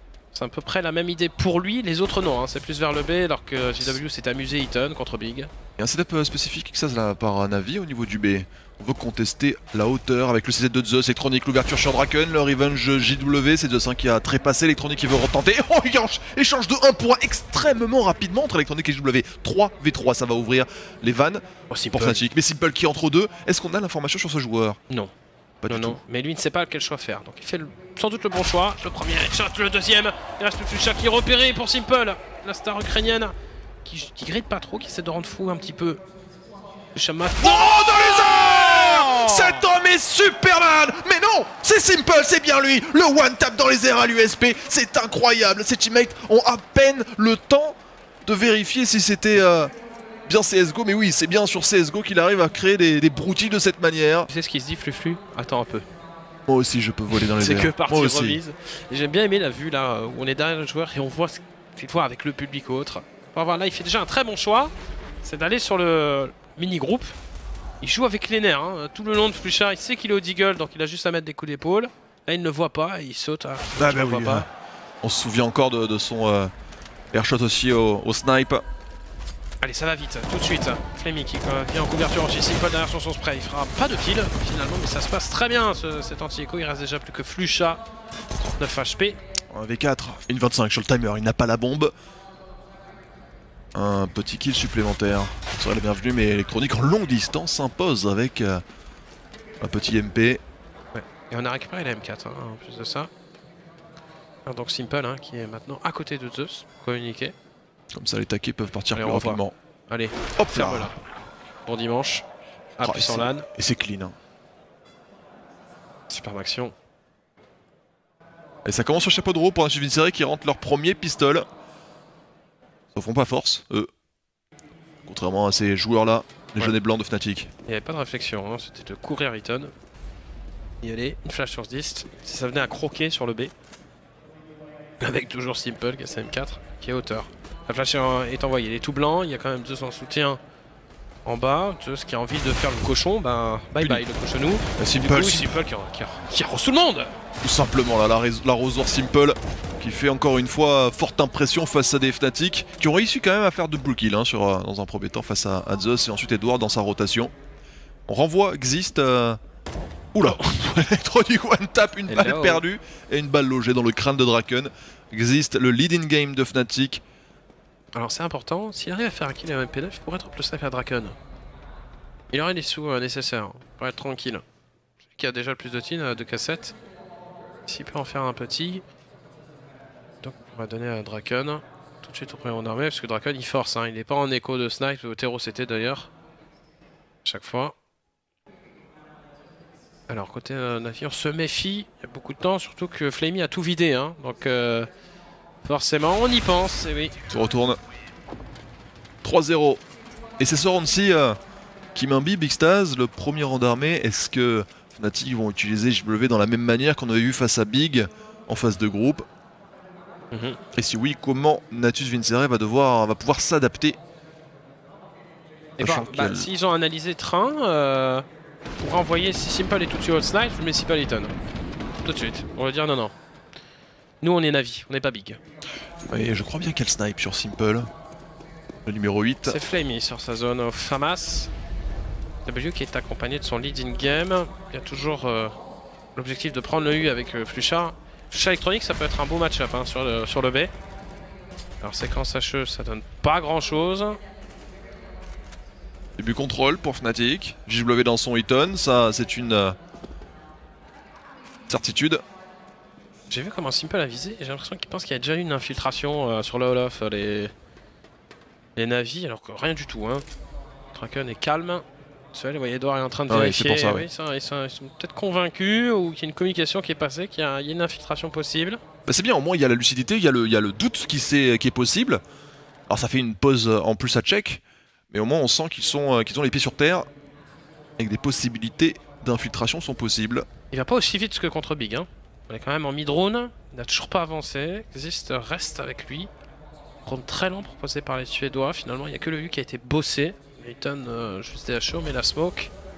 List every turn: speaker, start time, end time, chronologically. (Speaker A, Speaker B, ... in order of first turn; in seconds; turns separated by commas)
Speaker A: 0.3-5.5, Speaker B: 5.8-24.8, Speaker A: 21.7-22.2, Speaker B: 25.6-26.0, Speaker A: 25.7-33.3, Speaker A: 33.9-36.0, Speaker A: 36.9-39.6, Speaker B: 37.4-49.7, Speaker B: 50.3-54.3, Speaker A: 54.3-55.9, Speaker B: 56.5-58.4, Speaker A: 57.1-67.2, Speaker A: 67.8-74.5, Speaker B: 73.8-74.5, Speaker B: 75.0-76.5, Speaker B: 77.1-78.7, Speaker A: 79.6-87.8, Speaker A: 88.5-89.2, Speaker B: 89.5-91.9, Speaker B: 93.7-98.6, Speaker B: 99.6-100.4, Speaker A: 100.9-103.1, Speaker A: 104.5-107.3, Speaker B: 107.9-109.5, Speaker A: 108.9-111.0, Speaker B: 110.4-111.0, Speaker A: 111.7-112.3, Speaker A: 112.8-113.5, Speaker B: 112.8-114.2, Speaker A: 116.1-116.8, Speaker B: 118.7-121.5, Speaker B: 122.9-123.9, Speaker B: 125.0-127.5, Speaker A: 127.7-129.7, Speaker A: 130.8-133.5, Speaker A: 135.0-140.4, Speaker A: 141.2-147.2, Speaker B: 144.8-145.6, Speaker B: 147.4-157.3, Speaker B: 158.1-159.4, Speaker B: 160.1-167.0, Speaker A: 162.1-162.6, Speaker A: 167.9-171.2, Speaker A: 172.3-174.4, Speaker A: 175.1-176.8, Speaker A: 177.7-178.8, Speaker A: 180.2-186.1, Speaker A: 187.2-187.8, Speaker A: 190.1-194.9, Speaker A: 195.6-197.2, Speaker B: 197.3-197.8, Speaker B: 199.2-199.8, Speaker B: 200.4-201.4, Speaker B: 201.9-209.3, Speaker A: 210.3-210.6, Speaker B: 210.7-214.0, Speaker B: 215.8-216.5, Speaker A: 215.8-218.3, Speaker A: 218.8-221.4, Speaker A: 222.0-223.2, Speaker A: 224.2-225.4, Speaker B: 226.1-227.9, Speaker B: 228.8-229.6, Speaker A: 229.5-231.5, Speaker A: 232.4-235.5, Speaker A: 236.2-240.7, Speaker A: 241.8-244.2, Speaker B: 246.2-249.8, Speaker B: 251.7-252.2, Speaker A: 253.3-257.5, Speaker A: 258.8-260.2, Speaker A: 260.9-268.8, Speaker B: 263.3-264.1, Speaker B: 269.1-272.2, Speaker B: 272.9-277.1, Speaker B: 278.0-280.5, Speaker A: 280.7-286.3, Speaker A: 287.0-292.7